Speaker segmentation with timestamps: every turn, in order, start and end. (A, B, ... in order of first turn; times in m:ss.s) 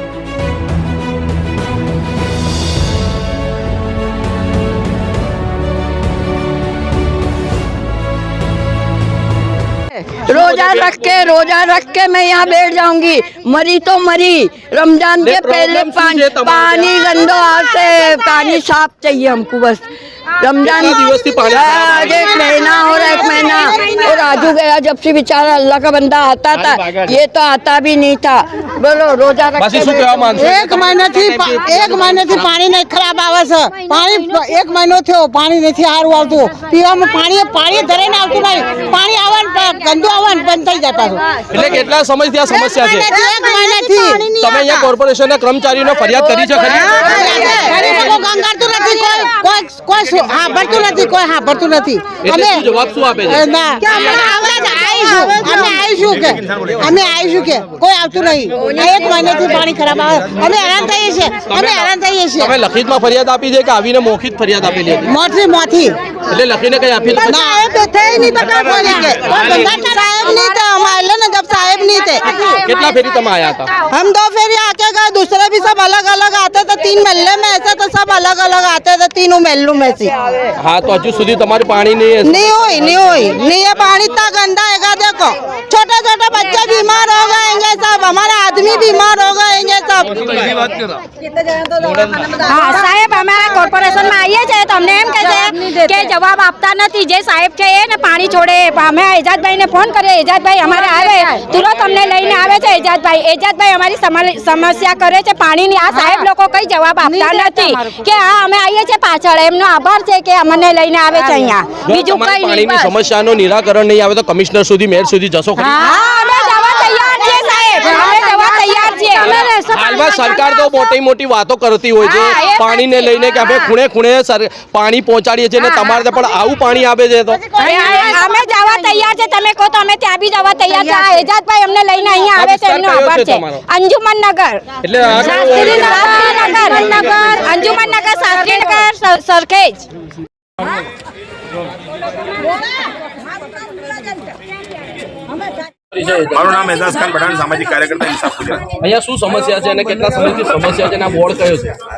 0:09.9-0:19.9 A
0:10.3-0:11.1 B
0:15.2-0:17.3 B
0:20.4-0:30.1 A
0:20.6-0:22.4 B
0:22.7-0:24.0 C
0:29.6-0:32.5 B
0:30.3-0:41.7 C
0:41.5-0:43.1 B
0:42.7-0:44.9 C
0:44.4-0:48.2 B
0:46.4-0:48.1 A
0:46.6-0:52.7 C
0:52.2-0:54.2 B
0:53.2-1:02.5 C
0:55.8-0:57.1 D
1:00.5-1:05.2 B
1:05.0-1:06.0 C
1:06.3-1:07.4 B
1:07.2-1:12.7 C
1:12.6-1:13.7 B
1:13.9-1:20.1 C
1:20.6-1:22.6 B
1:22.2-1:30.7 C
1:32.4-1:52.9 E
1:47.1-1:47.6 C
1:51.8-1:55.9 B
1:55.6-2:00.9 E
1:55.9-1:57.2 C
1:57.8-1:58.7 C
1:59.2-2:07.6 B
2:02.0-2:03.7 E
2:05.6-2:06.0 E
2:07.5-2:08.8 C
2:07.6-2:19.9 E
2:12.3-2:13.6 B
2:14.8-2:17.3 B
2:25.9-2:26.5 B
2:26.3-2:28.7 D
2:28.8-2:31.7 B